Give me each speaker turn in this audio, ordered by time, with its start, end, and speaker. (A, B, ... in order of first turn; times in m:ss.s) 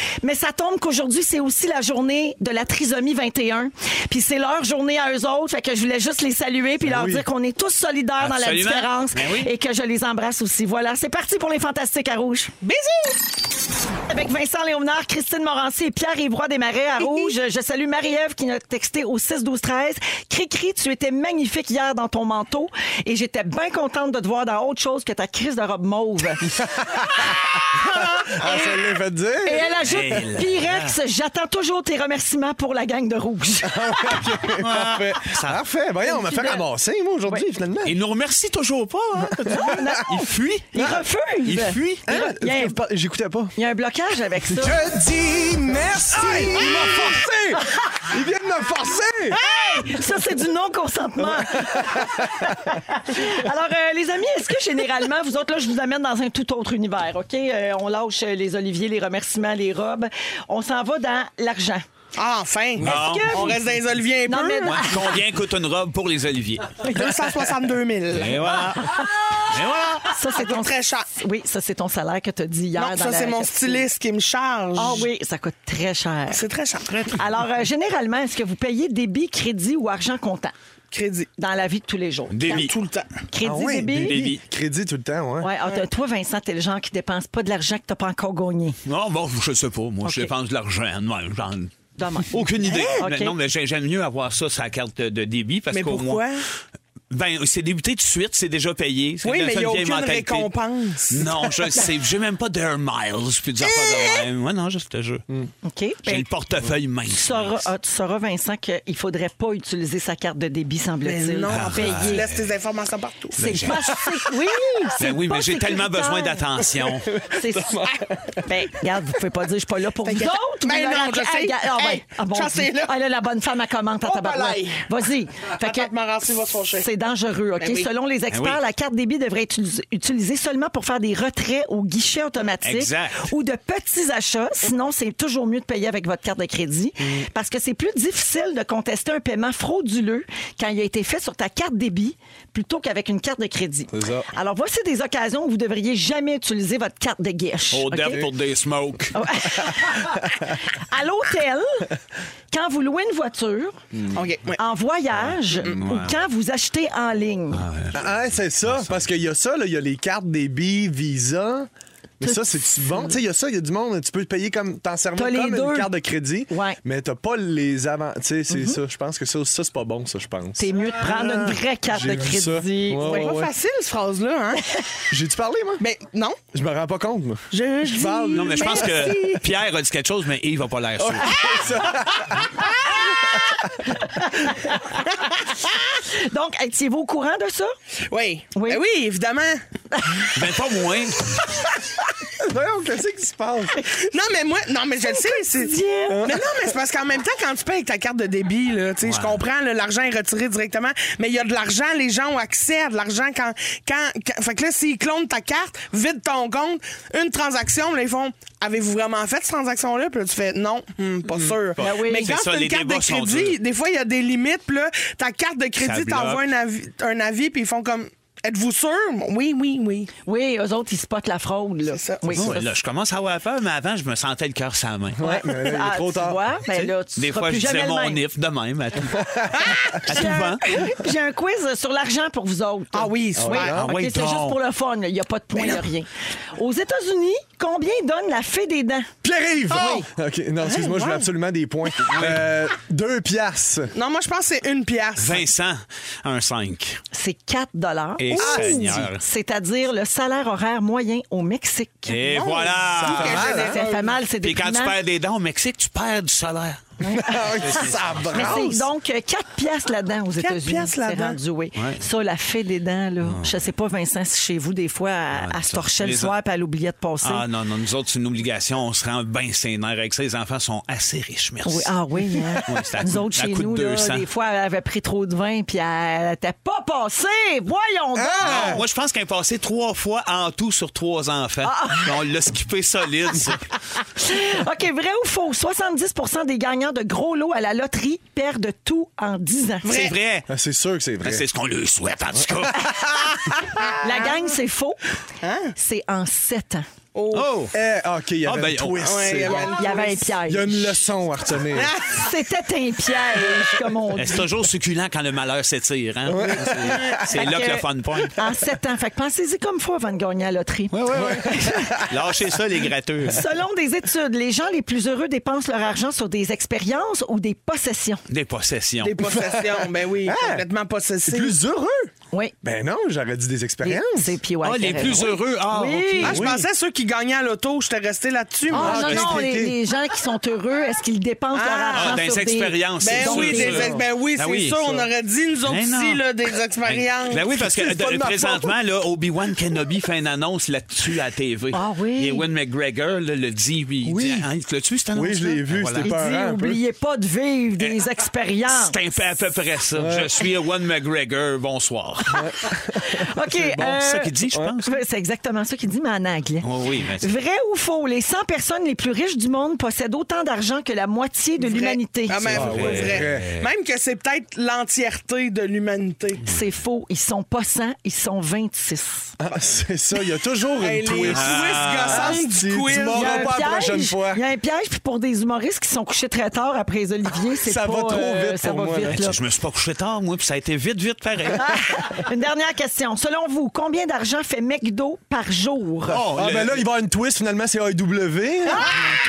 0:00.2-0:12.5 A
0:06.8-0:07.2 B
0:08.2-0:09.5 C
0:12.6-0:13.2 D
0:14.1-0:26.5 A
0:17.0-0:17.3 D
0:26.6-0:27.6 B
0:28.2-0:29.8 B
0:29.4-0:34.2 A
0:29.8-0:31.0 C
0:33.6-0:38.0 B
0:34.6-0:35.6 C
0:36.0-0:36.6 A
0:37.8-0:40.7 C
0:39.2-0:40.0 B
0:39.5-0:42.8 A
0:40.7-0:41.0 B
0:41.4-0:42.0 C
0:42.0-0:43.5 B
0:43.6-0:44.8 A
0:44.5-0:49.4 B
0:46.1-0:47.0 A
0:49.4-1:01.8 A
0:49.4-0:49.9 D
0:51.2-0:52.6 B
1:02.2-1:04.9 D
1:02.8-1:03.5 C
1:02.8-1:03.6 A
1:04.2-1:05.1 A
1:04.7-1:06.9 C
1:06.8-1:08.6 D
1:08.1-1:10.1 C
1:08.8-1:09.2 A
1:10.1-1:13.8 A
1:10.3-1:11.1 D
1:12.7-1:15.1 D
1:14.8-1:16.4 A
1:16.3-1:17.2 D
1:17.1-1:20.5 A
1:20.9-1:21.3 D
1:21.4-1:22.7 A
1:22.3-1:22.7 C
1:22.5-1:23.1 D
1:23.3-1:24.2 A
1:23.4-1:25.5 B
1:23.9-1:24.4 C
1:25.4-1:28.8 A
1:28.8-1:31.7 C
1:30.0-1:30.3 A
1:32.0-1:32.4 A
1:32.3-1:36.2 C
1:32.6-1:33.0 D
1:33.0-1:33.3 A
1:35.7-1:36.4 D
1:37.1-1:40.5 C
1:39.2-1:41.8 D
1:41.1-1:45.2 C
1:43.6-1:44.2 D
1:45.6-1:46.3 A
1:46.0-1:47.7 C
1:47.1-1:52.2 A
1:51.0-1:54.0 D
1:51.5-1:52.5 C
1:53.3-1:56.6 A
1:53.4-1:53.9 C
1:55.0-1:57.1 C
1:57.0-1:58.5 B
1:57.2-1:57.8 A
1:58.4-2:05.9 A
2:00.0-2:02.9 D
2:04.0-2:04.9 D
2:05.6-2:06.9 D
2:06.8-2:28.3 A
2:07.6-2:07.9 D
2:08.3-2:08.6 C
2:12.6-2:13.3 C
2:17.0-2:17.3 B
2:23.9-2:24.3 B
2:27.7-2:29.2 C
2:29.1-2:31.9 A
2:32.5-2:33.8 A
2:34.1-2:34.6 D
2:34.6-2:37.6 A
2:35.6-2:36.1 C
2:37.5-2:38.1 C
2:37.9-2:41.7 B
2:38.6-2:39.0 C
2:42.2-2:53.5 B
2:42.2-2:43.1 A
2:45.2-2:45.9 A
2:46.5-2:46.8 A
2:50.6-2:53.3 A
2:53.0-2:54.8 D
2:55.1-2:55.8 B
2:55.8-2:56.4 D
2:56.5-2:59.1 B
2:57.5-2:59.4 D
2:58.3-3:01.3 C
3:01.0-3:03.1 B
3:03.8-3:05.2 A
3:06.1-3:07.7 A
3:08.1-3:09.6 D
3:08.5-3:08.8 A
3:10.0-3:10.2 A
3:10.3-3:11.3 C
3:12.4-3:13.8 B
3:14.0-3:40.1 D
3:15.0-3:16.2 A
3:16.1-3:16.6 B
3:19.0-3:19.4 C
3:31.8-3:32.3 A
3:32.2-3:33.6 C
3:35.8-3:36.4 C
3:40.2-3:42.7 A
3:41.9-3:42.5 D
3:42.3-3:45.2 C
3:45.1-3:46.4 B
3:45.2-3:48.2 A
3:46.7-3:49.3 C
3:49.2-3:49.8 B
3:49.6-3:50.0 D
3:50.0-3:59.1 A
3:50.1-3:50.6 C
3:52.9-3:53.7 D
3:53.4-3:53.9 B
3:53.7-3:54.6 C
3:55.5-3:55.8 D
3:59.2-4:03.9 B
3:59.7-4:00.1 D
3:59.8-4:00.0 A
4:00.6-4:01.3 D
4:02.1-4:02.4 C
4:03.9-4:05.4 D
4:05.2-4:07.0 C
4:07.1-4:12.2 A
4:08.2-4:09.2 C
4:08.4-4:09.0 B
4:12.1-4:13.5 C
4:12.2-4:14.2 D
4:13.1-4:13.8 B
4:13.4-4:15.0 A
4:14.4-4:16.8 C
4:17.0-4:17.3 A
4:17.0-4:18.9 B
4:17.6-4:18.3 C
4:18.3-4:27.4 A
4:20.4-4:21.4 D
4:23.2-4:23.5 C
4:25.3-4:26.3 C
4:27.2-4:32.0 C
4:31.6-4:38.8 A
4:32.6-4:34.2 C
4:38.2-4:38.8 B
4:38.4-4:43.6 C
4:41.6-4:42.1 A
4:44.2-4:49.9 A
4:49.8-4:50.2 D
4:49.9-4:50.5 C
4:50.5-4:51.4 B
4:51.2-4:53.1 C
4:52.4-4:53.2 B
4:53.9-4:54.4 D
4:54.0-4:55.0 A
4:55.4-4:55.7 D
4:55.8-4:56.8 A
4:57.1-4:57.5 D
4:57.3-4:57.7 C
4:57.7-5:01.9 B
4:58.4-4:59.6 C
4:59.0-5:00.3 D
4:59.8-5:01.0 A
5:01.7-5:02.3 D
5:02.0-5:04.4 A
5:04.2-5:08.4 C
5:06.2-5:07.3 B
5:06.9-5:07.2 D
5:07.3-5:12.0 A
5:10.9-5:13.4 C
5:11.1-5:12.2 B
5:13.3-5:18.2 A
5:18.3-5:19.2 C
5:19.0-5:21.6 D
5:19.2-5:20.6 B
5:21.2-5:24.4 B
5:23.8-5:26.4 A
5:24.6-5:26.5 C
5:26.2-5:29.3 D
5:26.2-5:26.7 B
5:28.7-5:33.9 A
5:28.7-5:29.8 B
5:31.5-5:32.2 D
5:31.9-5:35.1 C
5:33.0-5:37.4 D
5:33.7-5:34.0 B
5:35.6-5:36.2 C
5:36.8-5:46.2 C
5:37.5-5:38.8 B
5:41.7-5:42.4 A
5:44.0-5:44.5 B
5:45.1-5:46.8 B
5:46.0-5:49.0 A
5:48.7-5:52.4 C
5:49.9-5:50.4 B
5:52.3-5:53.9 B
5:53.0-5:56.6 A
5:53.8-5:55.0 C
5:56.6-5:57.3 C
5:57.2-6:02.4 A
6:01.6-6:06.4 D
6:02.3-6:03.7 C
6:02.5-6:03.5 B
6:06.4-6:09.3 A
6:09.4-6:14.4 B
6:10.8-6:13.5 D
6:11.3-6:12.4 C
6:13.1-6:19.4 A
6:17.6-6:19.2 B
6:19.1-6:21.7 C
6:21.6-6:26.2 A
6:26.1-6:26.8 C
6:26.3-6:29.0 B